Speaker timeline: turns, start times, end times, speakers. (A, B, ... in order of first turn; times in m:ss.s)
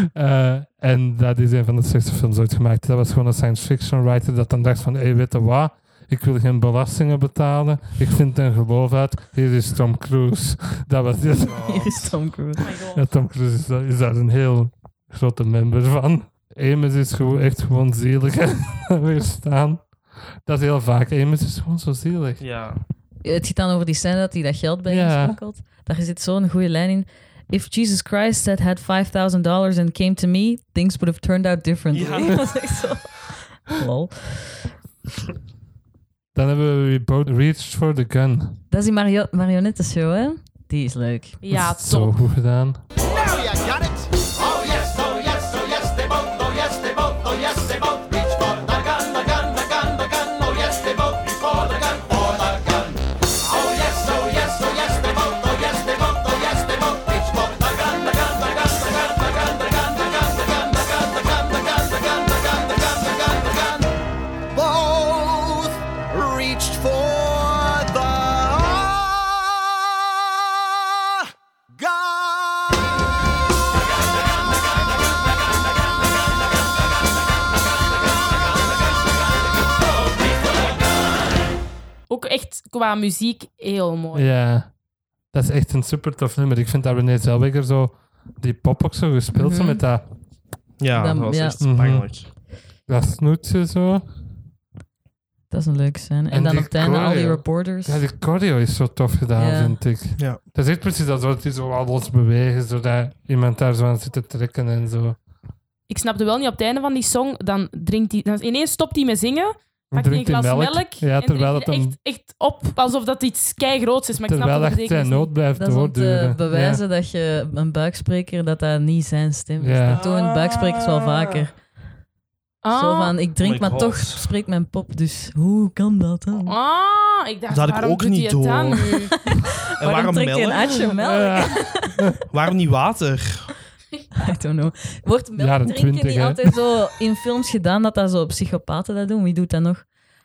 0:00.1-0:11.6 A
0:11.4-0:12.2 B
0:11.5-0:12.6 C
0:12.6-0:13.0 D
0:12.9-0:22.4 A
0:22.4-0:22.8 B
0:23.2-0:34.7 C
0:24.9-0:25.4 A
0:31.9-0:32.6 B
0:36.3-0:38.6 A
0:38.7-0:41.4 C
0:41.4-0:42.2 D
0:41.5-0:42.8 A
0:43.0-0:53.0 E
0:53.5-1:03.8 E
1:04.5-1:09.7 E
1:11.7-1:12.9 E
1:22.1-1:24.3 D
1:24.1-1:30.1 A
1:29.3-1:29.8 C
1:30.8-1:32.3 B
1:31.0-1:31.6 C
1:31.6-1:34.1 A
1:35.5-1:38.0 C
1:36.3-1:45.2 A
1:39.4-1:39.8 C
1:45.9-1:55.3 D
1:49.9-1:52.0 A
1:54.3-1:56.8 A
1:55.6-2:01.6 C
1:59.6-2:00.0 A
2:00.2-2:00.8 B
2:02.6-2:03.2 D
2:02.7-2:06.6 C
2:03.4-2:04.3 B
2:06.5-2:09.1 D
2:07.5-2:09.1 B
2:09.3-2:12.0 C
2:09.7-2:10.8 B
2:11.0-2:12.1 A
2:12.3-2:13.5 B
2:14.2-2:19.9 C
2:15.4-2:16.6 A